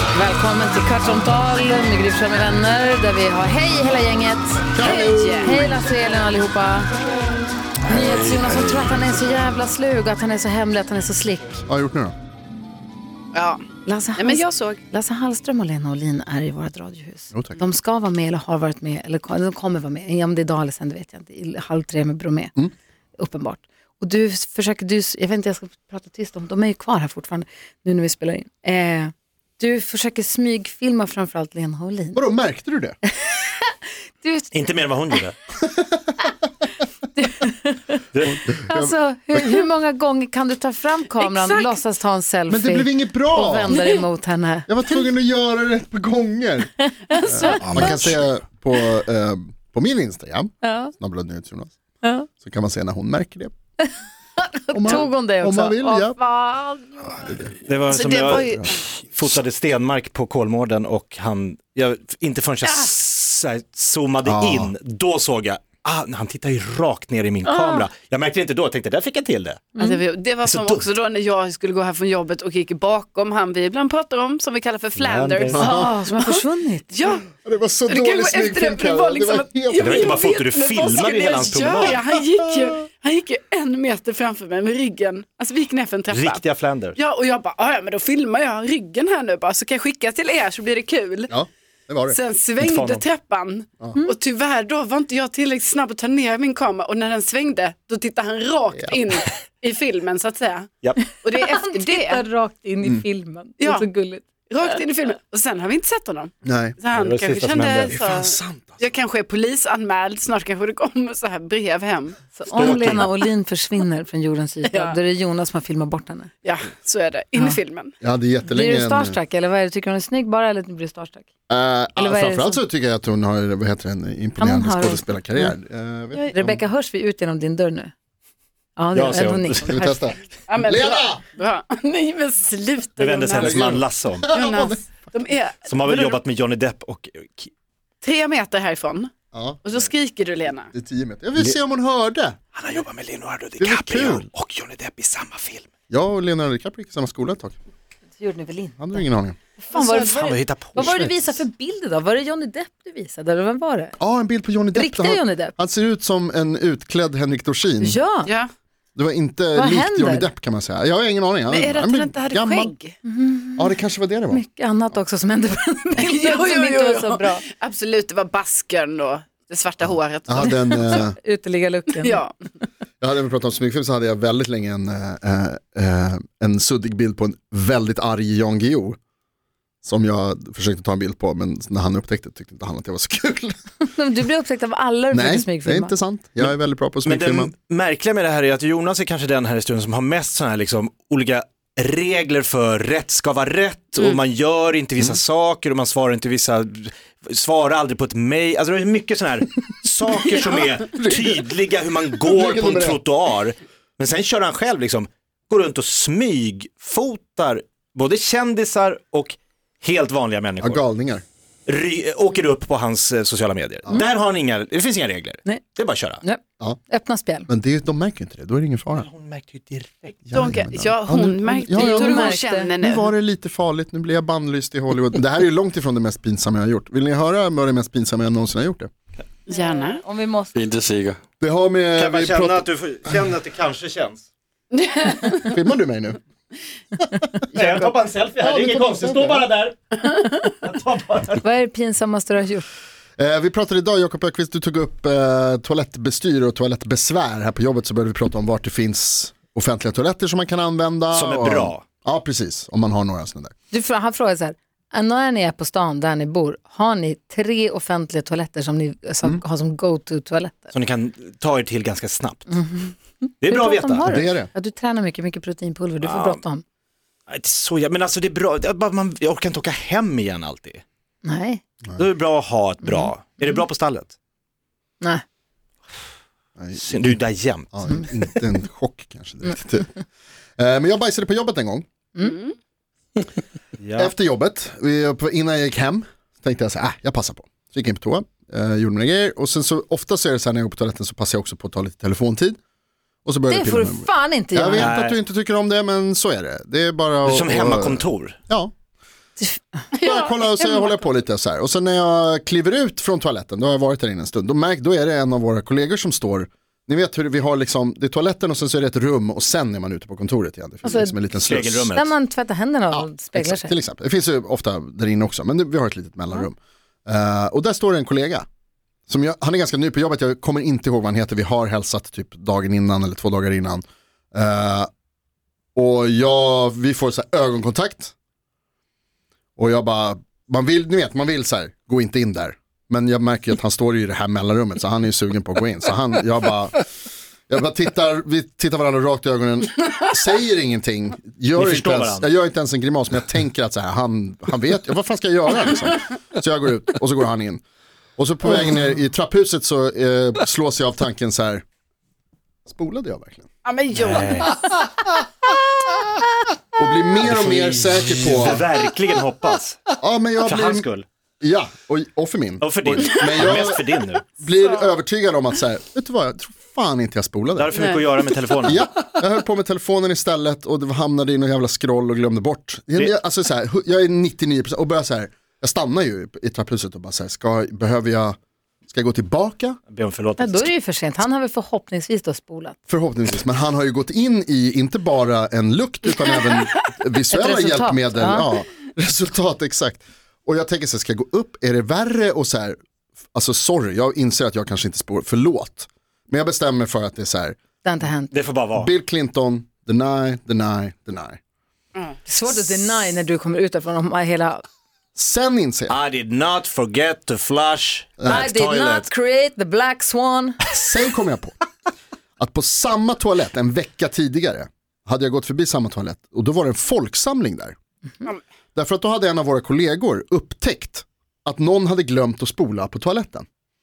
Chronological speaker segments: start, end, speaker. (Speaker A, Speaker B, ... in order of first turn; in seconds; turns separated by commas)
Speaker A: 0.1-6.9, Speaker B: 4.7-5.6, Speaker C: 4.8-5.6, Speaker A: 7.8-11.6, Speaker D: 7.8-9.1, Speaker B: 11.7-12.1, Speaker C: 13.3-13.6, Speaker A: 13.8-22.5, Speaker C: 14.2-14.8, Speaker B: 17.3-17.6, Speaker A: 23.2-32.2, Speaker B: 32.1-33.0, Speaker A: 33.2-34.7, Speaker E: 34.5-35.4, Speaker B: 35.6-36.1, Speaker A: 37.2-38.0, Speaker B: 38.3-39.6, Speaker A: 38.6-44.7, Speaker C: 41.2-41.7, Speaker B: 42.5-43.8, Speaker B: 44.7-51.7, Speaker A: 46.8-48.0, Speaker D: 47.5-48.1, Speaker A: 50.6-50.9, Speaker A: 52.0-52.3, Speaker B: 52.4-53.5, Speaker A: 53.8-57.3, Speaker B: 54.7-56.2, Speaker B: 57.2-57.5, Speaker E: 57.6-69.7, Speaker C: 57.9-58.8, Speaker B: 58.3-58.8, Speaker C: 62.6-62.9, Speaker B: 64.2-64.7, Speaker C: 67.5-67.9, Speaker C: 69.8-76.4, Speaker E: 70.4-70.8, Speaker E: 75.0-75.6, Speaker B: 75.5-76.0, Speaker A: 75.5-77.0, Speaker C: 76.9-77.3, Speaker B: 77.3-80.2, Speaker C: 77.9-86.4, Speaker E: 79.8-82.0, Speaker B: 81.8-82.7, Speaker E: 86.1-87.0, Speaker C: 87.0-91.3, Speaker B: 91.3-92.2, Speaker C: 92.1-100.7, Speaker E: 92.6-93.0, Speaker B: 98.7-99.0, Speaker A: 101.0-104.7, Speaker C: 101.2-102.2, Speaker C: 103.6-103.9, Speaker C: 104.5-113.0, Speaker B: 106.4-106.8, Speaker E: 106.9-108.0, Speaker B: 107.9-108.8, Speaker A: 112.3-116.3, Speaker E: 112.5-113.1, Speaker C: 114.7-115.0, Speaker C: 116.4-117.9, Speaker B: 118.0-119.2, Speaker A: 118.5-121.3, Speaker B: 121.5-126.6, Speaker A: 122.0-122.6, Speaker A: 124.4-125.5, Speaker A: 126.3-127.9, Speaker A: 128.8-130.1, Speaker E: 128.9-129.7, Speaker B: 129.6-131.2, Speaker C: 130.5-133.6, Speaker E: 133.0-134.3, Speaker B: 133.3-134.9, Speaker C: 134.3-136.2, Speaker E: 135.6-137.5, Speaker C: 138.0-139.1, Speaker B: 139.3-139.9, Speaker C: 139.6-140.7, Speaker B: 140.7-142.4, Speaker E: 142.5-145.7, Speaker B: 143.6-144.3, Speaker B: 145.9-147.6, Speaker A: 148.2-149.0, Speaker B: 148.8-149.4, Speaker A: 149.6-153.9, Speaker C: 149.7-150.1, Speaker E: 150.1-151.2, Speaker B: 150.8-151.1, Speaker B: 154.0-158.0, Speaker A: 154.7-155.5, Speaker A: 157.8-158.3, Speaker C: 158.2-158.5, Speaker B: 158.9-162.7, Speaker A: 159.5-160.3, Speaker C: 161.5-162.9, Speaker A: 163.1-163.7, Speaker B: 163.6-164.4, Speaker A: 164.3-167.4, Speaker C: 166.0-171.0, Speaker B: 170.2-171.2, Speaker A: 170.4-172.2, Speaker C: 172.0-172.3, Speaker B: 173.0-179.0, Speaker B: 179.8-183.6, Speaker A: 183.9-185.9, Speaker B: 185.1-187.5, Speaker E: 187.0-210.8, Speaker B: 200.8-201.5, Speaker B: 202.2-203.0, Speaker B: 210.6-211.2, Speaker E: 211.7-216.2, Speaker A: 216.2-217.5, Speaker B: 217.5-219.1, Speaker E: 218.9-220.2, Speaker B: 220.2-228.9, Speaker C: 220.3-223.1, Speaker A: 221.5-222.7, Speaker C: 229.5-230.0, Speaker A: 229.5-230.6, Speaker D: 230.5-231.2, Speaker B: 231.4-232.7, Speaker E: 231.9-234.2, Speaker C: 234.7-235.5, Speaker B: 235.4-236.2, Speaker E: 237.5-241.4, Speaker B: 238.4-239.4, Speaker A: 241.4-242.7, Speaker B: 243.2-253.5, Speaker E: 251.1-251.8, Speaker A: 253.7-260.7, Speaker E: 260.7-262.6, Speaker A: 262.5-266.6, Speaker E: 263.4-264.1, Speaker B: 264.0-264.5, Speaker E: 266.0-266.4, Speaker E: 267.3-270.8, Speaker A: 271.2-271.6, Speaker E: 271.9-274.1, Speaker A: 272.8-273.1, Speaker B: 276.6-277.2, Speaker E: 276.7-277.7, Speaker B: 277.7-280.0, Speaker B: 280.6-281.8, Speaker C: 282.2-282.5, Speaker E: 283.8-284.1, Speaker B: 283.9-292.6, Speaker B: 293.2-298.7, Speaker A: 293.5-294.9, Speaker E: 294.8-295.2, Speaker E: 297.2-298.4, Speaker A: 299.4-299.8, Speaker C: 299.9-300.9, Speaker B: 300.0-311.9, Speaker A: 310.8-311.2, Speaker E: 311.4-312.1, Speaker A: 311.9-313.7, Speaker B: 312.9-318.4, Speaker B: 319.1-324.9, Speaker B: 325.7-328.1, Speaker B: 329.6-336.8, Speaker B: 337.5-347.6, Speaker E: 341.6-342.3, Speaker B: 348.2-351.6, Speaker B: 352.6-353.4, Speaker C: 353.6-354.5, Speaker E: 353.9-354.6, Speaker B: 356.8-358.7, Speaker E: 357.2-359.8, Speaker B: 360.0-360.9, Speaker E: 360.4-361.1, Speaker B: 361.4-363.8, Speaker E: 362.6-364.2, Speaker B: 364.4-367.7, Speaker C: 364.6-364.9, Speaker E: 367.6-368.8, Speaker C: 367.7-368.0, Speaker B: 368.6-378.4, Speaker B: 378.9-379.8, Speaker E: 379.9-380.7, Speaker A: 380.4-382.8, Speaker B: 382.9-392.8, Speaker A: 387.3-388.5, Speaker B: 393.3-397.6, Speaker A: 397.8-398.3, Speaker E: 398.3-398.9, Speaker B: 398.7-401.4, Speaker C: 401.9-402.2, Speaker A: 402.2-404.6, Speaker B: 405.1-405.9, Speaker E: 405.9-409.1, Speaker B: 408.2-408.5, Speaker A: 408.2-410.6, Speaker B: 410.6-411.6, Speaker B: 412.4-417.7, Speaker B: 418.7-423.4